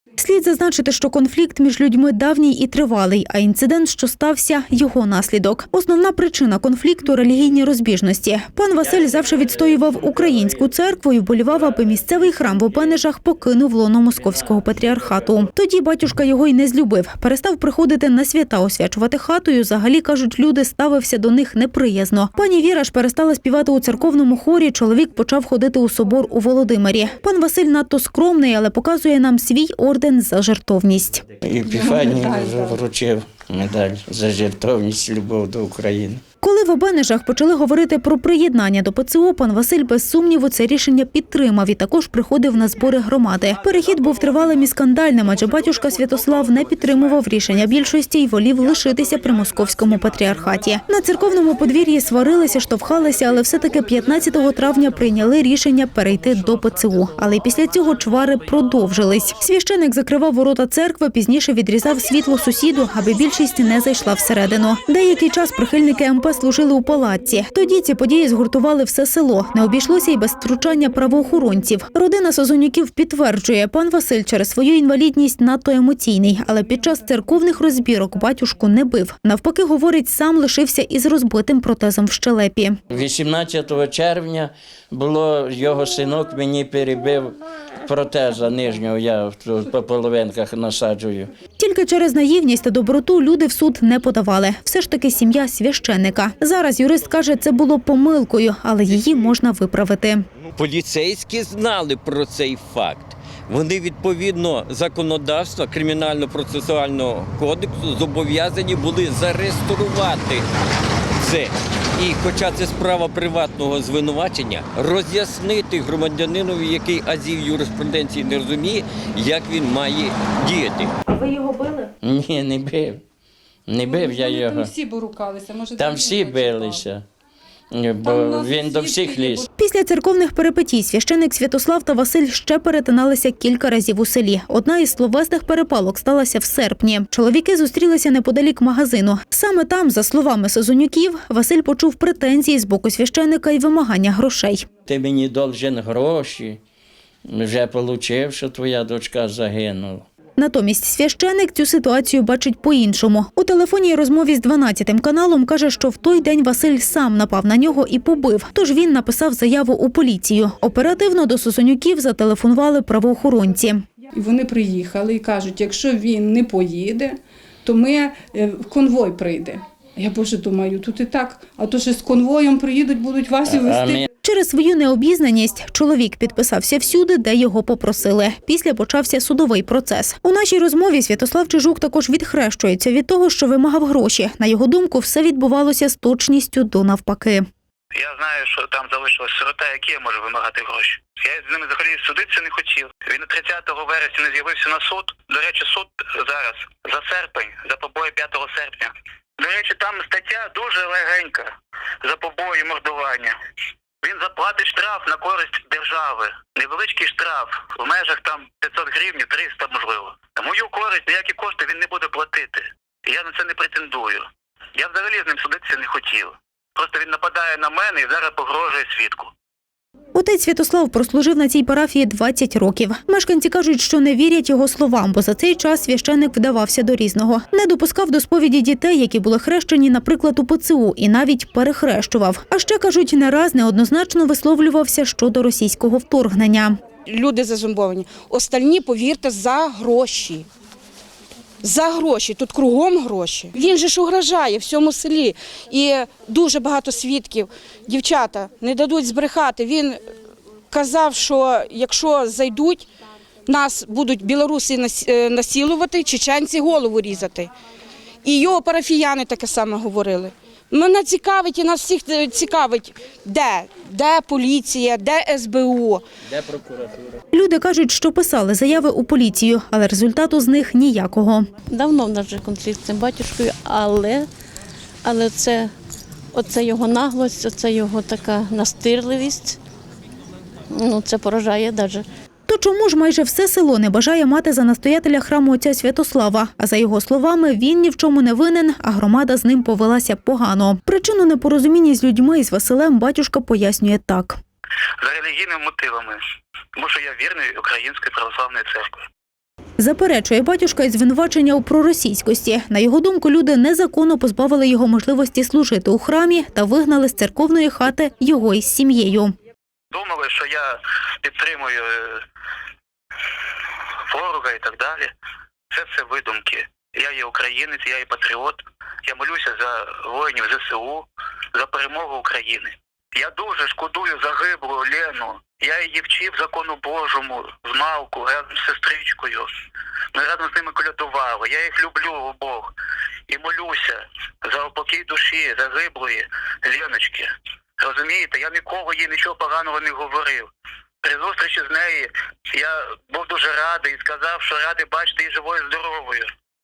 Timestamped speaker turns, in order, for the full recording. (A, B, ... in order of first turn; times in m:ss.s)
0:00.2-0:31.2 A
0:31.4-0:36.2 B
0:31.6-0:32.8 C
0:36.4-1:22.8 A
1:22.9-1:31.3 B
1:31.6-1:40.2 A
1:40.6-1:50.5 D
1:51.2-2:01.0 D
2:01.2-2:01.9 C
2:02.0-2:03.0 B
2:03.7-2:04.7 B
2:03.8-2:06.8 C
2:05.8-2:07.0 B
2:07.7-2:09.5 B
2:08.0-2:09.5 C
2:09.6-2:24.6 A
2:24.9-2:26.6 B
2:27.3-2:30.0 B
2:30.4-2:43.8 A
2:44.1-2:54.0 C
2:53.5-2:54.1 B
2:54.2-3:07.4 A
3:08.0-3:21.5 E
3:22.0-3:23.3 E
3:24.0-3:39.3 E
3:40.2-3:56.8 A
3:57.1-4:00.5 F
4:01.6-4:10.0 F
4:10.7-4:12.9 F
4:13.5-4:17.5 F
4:18.2-4:26.0 F
4:26.4-4:27.0 B
4:27.3-4:31.5 A
4:31.7-4:34.3 G
4:35.0-4:35.7 G
4:36.3-4:39.6 G
4:40.7-4:42.0 G
4:42.5-4:54.4 A
4:55.0-4:56.2 E
4:56.8-4:59.1 E
4:59.8-5:09.4 A
5:09.9-5:12.2 E
5:14.1-5:15.1 E
5:15.7-5:29.5 E
5:30.1-5:32.7 E
5:33.3-5:40.5 E
5:41.0-5:46.3 E